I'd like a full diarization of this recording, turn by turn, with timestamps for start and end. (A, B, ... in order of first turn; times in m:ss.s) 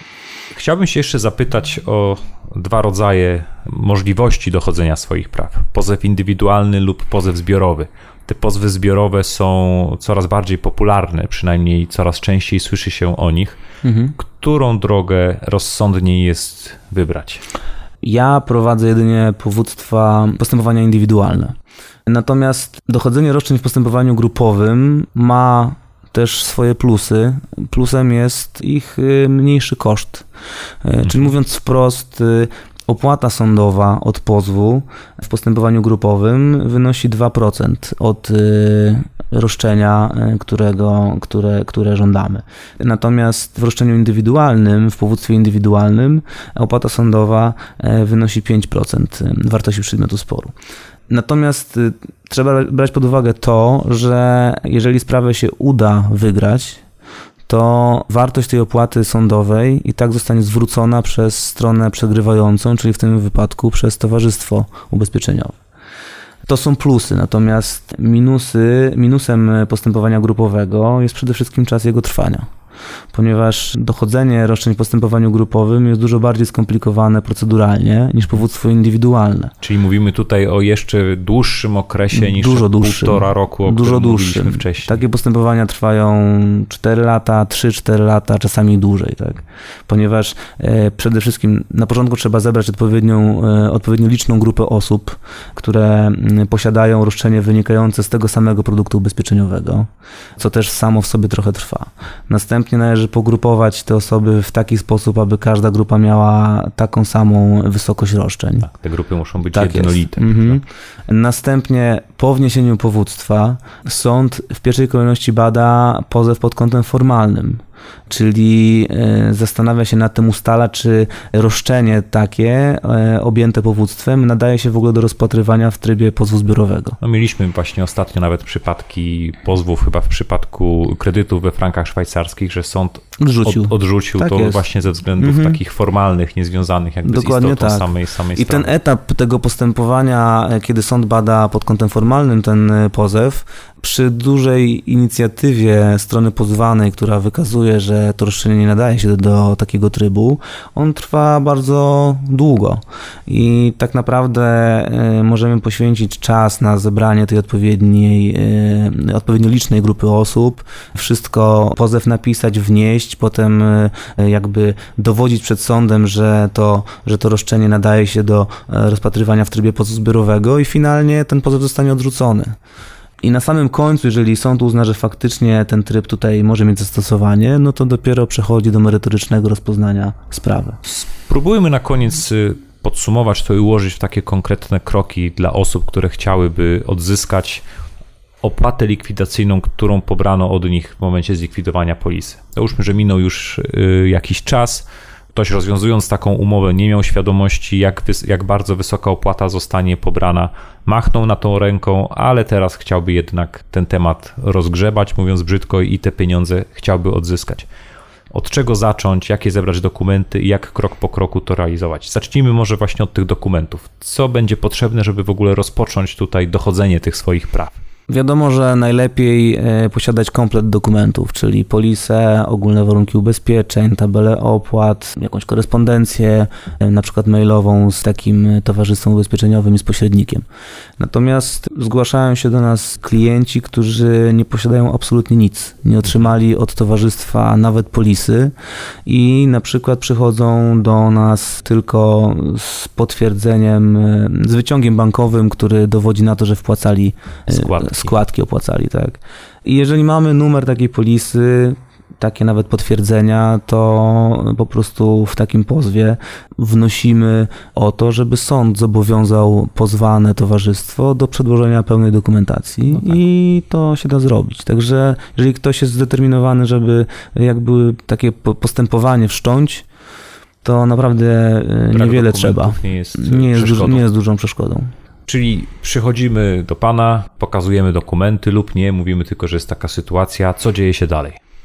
0:00.5-0:13.6 A
0:13.8-0:14.1 B
0:14.2-0:17.4 A
0:18.0-0:21.6 B
0:22.1-0:30.3 B
0:30.8-0:50.5 B
0:51.1-0:56.8 B
0:57.5-1:05.6 B
1:06.4-1:12.5 B
1:13.1-1:19.5 B
1:19.6-1:25.0 A
1:22.1-1:48.7 B
1:48.6-1:50.6 A
1:49.5-2:07.0 B
2:07.0-2:18.7 A
2:13.2-2:14.6 B
2:15.2-2:15.6 B
2:17.0-2:52.6 B
2:53.2-3:00.8 B
3:00.8-3:07.6 A
3:08.4-3:27.7 A
3:28.3-3:37.7 A
3:38.1-3:50.4 B
3:51.0-3:58.5 B
3:59.0-4:29.8 B
4:07.5-4:08.2 A
4:30.6-4:34.9 B
4:31.9-4:34.0 A
4:35.2-4:41.4 A